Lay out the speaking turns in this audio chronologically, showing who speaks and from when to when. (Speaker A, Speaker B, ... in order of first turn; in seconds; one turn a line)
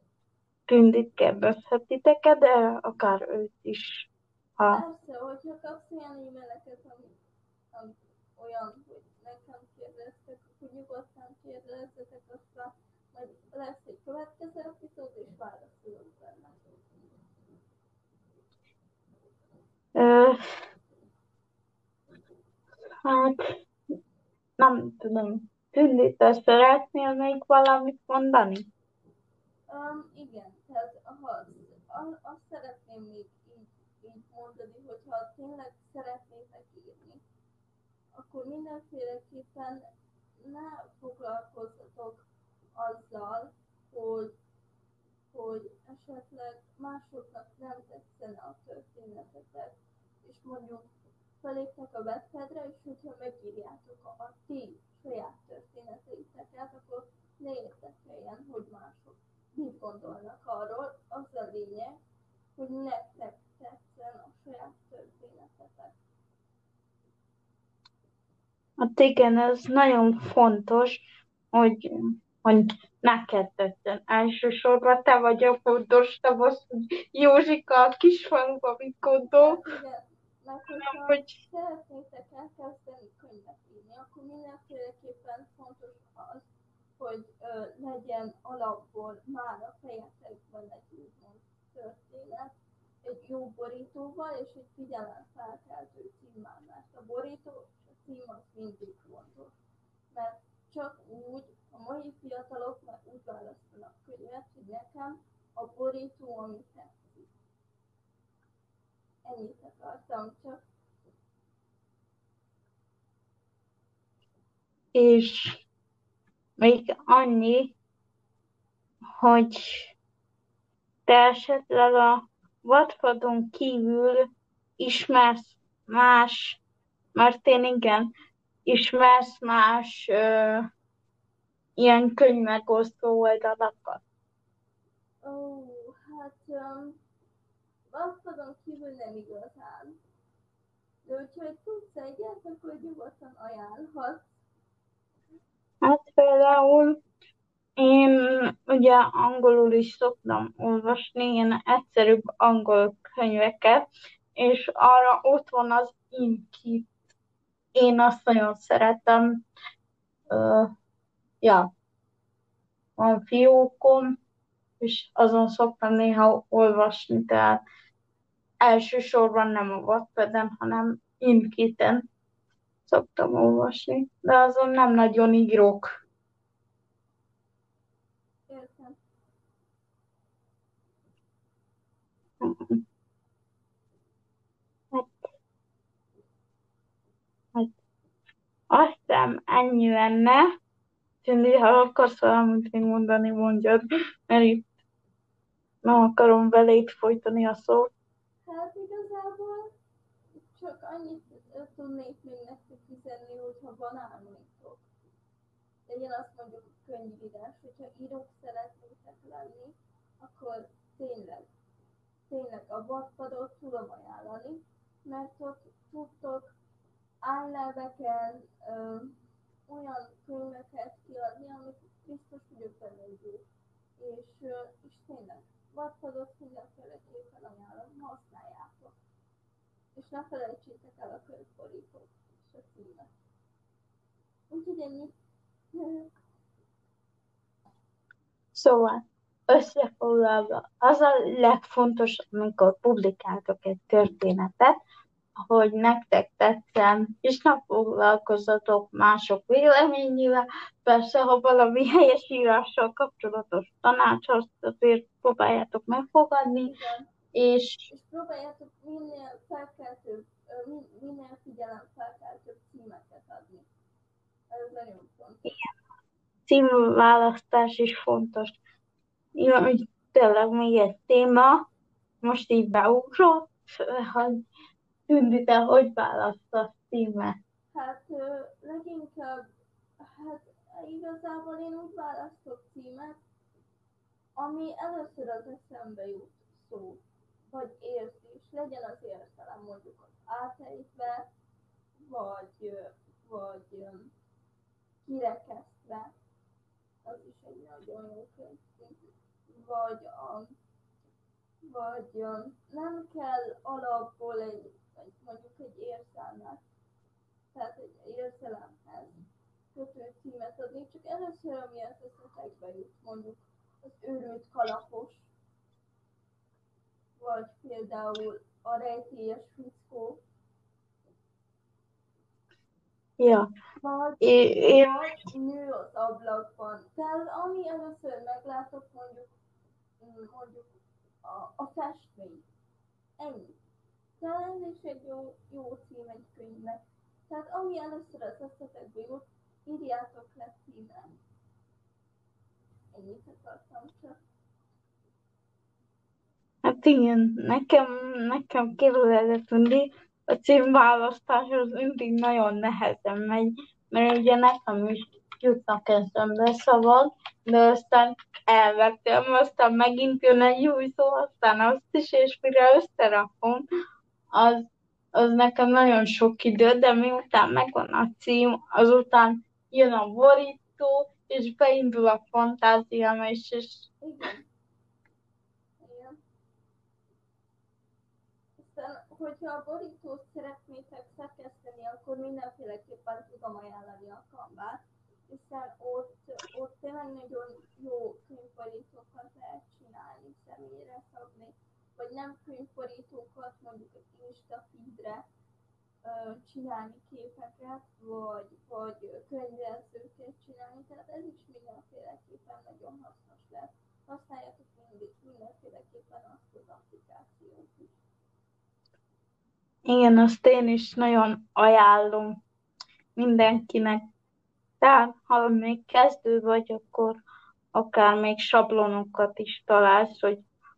Speaker A: 0.7-4.1
Speaker B: 4.7-7.2
Speaker B: 7.7-16.6
Speaker A: 19.9-20.4
Speaker A: 23.0-23.4
Speaker A: 24.6-28.6
Speaker B: 29.7-37.2
Speaker B: 38.1-39.8
Speaker B: 40.4-42.2
Speaker B: 42.8-44.3
Speaker B: 45.3-49.7
Speaker B: 50.2-50.9
Speaker B: 51.4-62.0
Speaker B: 62.5-66.0
Speaker A: 68.8-71.0
Speaker A: 71.5-79.6
Speaker B: 79.3-86.5
Speaker A: 80.7-81.4
Speaker B: 87.0-99.5
Speaker B: 100.1-107.3
Speaker B: 109.2-110.6
Speaker A: 114.9-115.6
Speaker A: 116.6-117.7
Speaker A: 119.2-119.9
Speaker A: 121.1-124.2
Speaker A: 124.8-126.6
Speaker A: 127.1-128.1
Speaker A: 128.7-130.7
Speaker A: 131.8-134.0
Speaker B: 135.2-137.0
Speaker B: 137.9-140.0
Speaker B: 141.0-144.3
Speaker A: 145.8-147.0
Speaker A: 147.8-153.8
Speaker A: 154.4-156.9
Speaker A: 157.8-159.4
Speaker A: 160.3-160.7
Speaker A: 161.4-161.7
Speaker A: 163.0-164.2
Speaker A: 164.8-167.6
Speaker A: 168.6-172.0
Speaker A: 172.9-175.9
Speaker B: 178.5-179.0
Speaker A: 182.4-182.8
Speaker A: 184.9-185.2
Speaker A: 188.7-190.4
Speaker A: 191.2-194.7
Speaker A: 195.8-197.9
Speaker B: 198.4-199.7
Speaker B: 200.5-204.8
Speaker B: 205.9-211.5
Speaker B: 212.3-216.5
Speaker B: 217.2-219.1
Speaker B: 219.7-223.4
Speaker B: 224.0-228.9
Speaker B: 229.9-233.1
Speaker B: 234.5-235.1
Speaker B: 235.7-236.1
Speaker A: 238.5-244.8
Speaker A: 245.4-256.7
Speaker B: 256.6-257.1
Speaker A: 257.3-257.9
Speaker B: 257.9-263.6
Speaker B: 264.5-265.5
Speaker A: 266.5-268.6
Speaker A: 269.3-271.6
Speaker A: 272.2-274.4
Speaker A: 275.1-277.4
Speaker B: 277.7-279.4
Speaker B: 280.0-283.2
Speaker B: 284.4-291.3
Speaker B: 292.0-294.1
Speaker B: 295.0-296.1
Speaker B: 297.0-300.5
Speaker B: 301.6-306.6
Speaker B: 307.5-309.2
Speaker B: 309.7-315.3
Speaker B: 317.2-320.2
Speaker A: 323.2-323.5
Speaker B: 323.8-329.3
Speaker A: 324.2-325.1
Speaker B: 330.0-330.7
Speaker B: 331.2-332.4
Speaker B: 333.2-333.6
Speaker B: 334.2-341.1
Speaker B: 342.9-344.2
Speaker A: 346.6-363.6
Speaker A: 364.3-364.6
Speaker A: 365.1-373.9
Speaker B: 374.0-374.5
Speaker B: 375.8-376.2
Speaker B: 378.6-395.2
Speaker B: 396.0-407.9
Speaker A: 409.9-412.4
Speaker A: 413.1-414.0
Speaker A: 414.8-417.1
Speaker A: 417.7-420.4